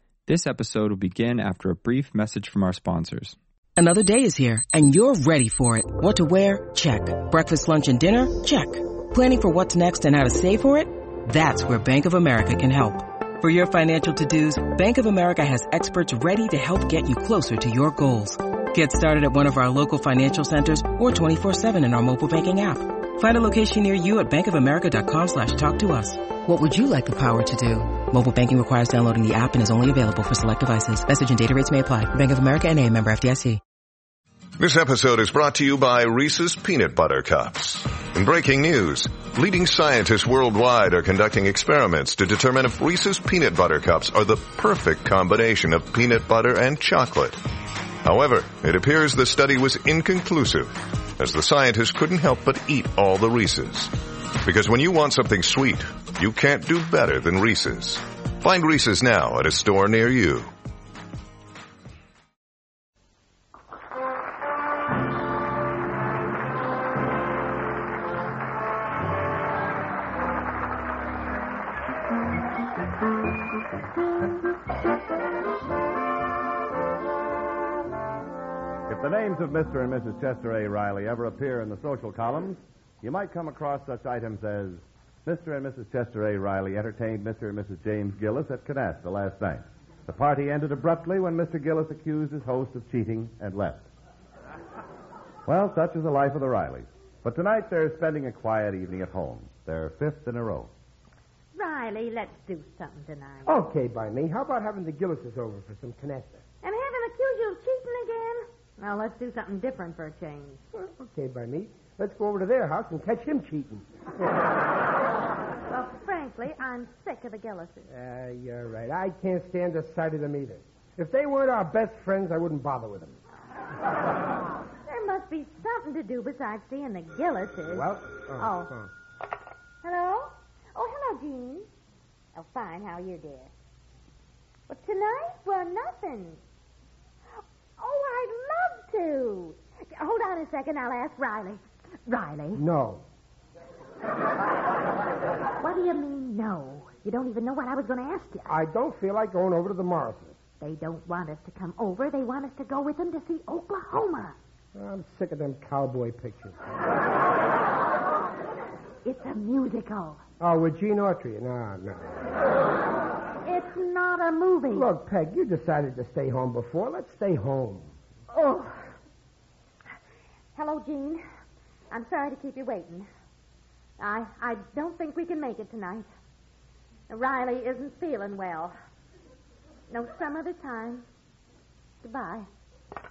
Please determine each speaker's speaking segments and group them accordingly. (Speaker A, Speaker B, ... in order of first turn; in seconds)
Speaker A: 0.3-3.4
Speaker B: 3.8-33.6
Speaker C: 34.6-47.4, 48.0-60.5
Speaker D: 78.9-93.9, 95.5-100.7
Speaker E: 101.5-103.6, 106.6-110.6, 115.7-117.9, 124.8-128.7, 129.8-131.7, 132.3-133.5, 134.7-136.4, 137.8-142.6, 145.6-148.6, 150.6-154.3, 159.0-160.2, 163.4-164.9, 168.3-168.9, 170.5-171.2, 171.9-173.1, 174.0-176.1, 177.1-178.7, 179.9-181.0, 182.0-182.5
Speaker F: 103.5-106.4, 110.7-113.9, 117.9-123.2, 127.7-128.9, 142.5-143.0, 148.5-150.4, 154.7-156.6, 160.4-162.2, 164.7-167.9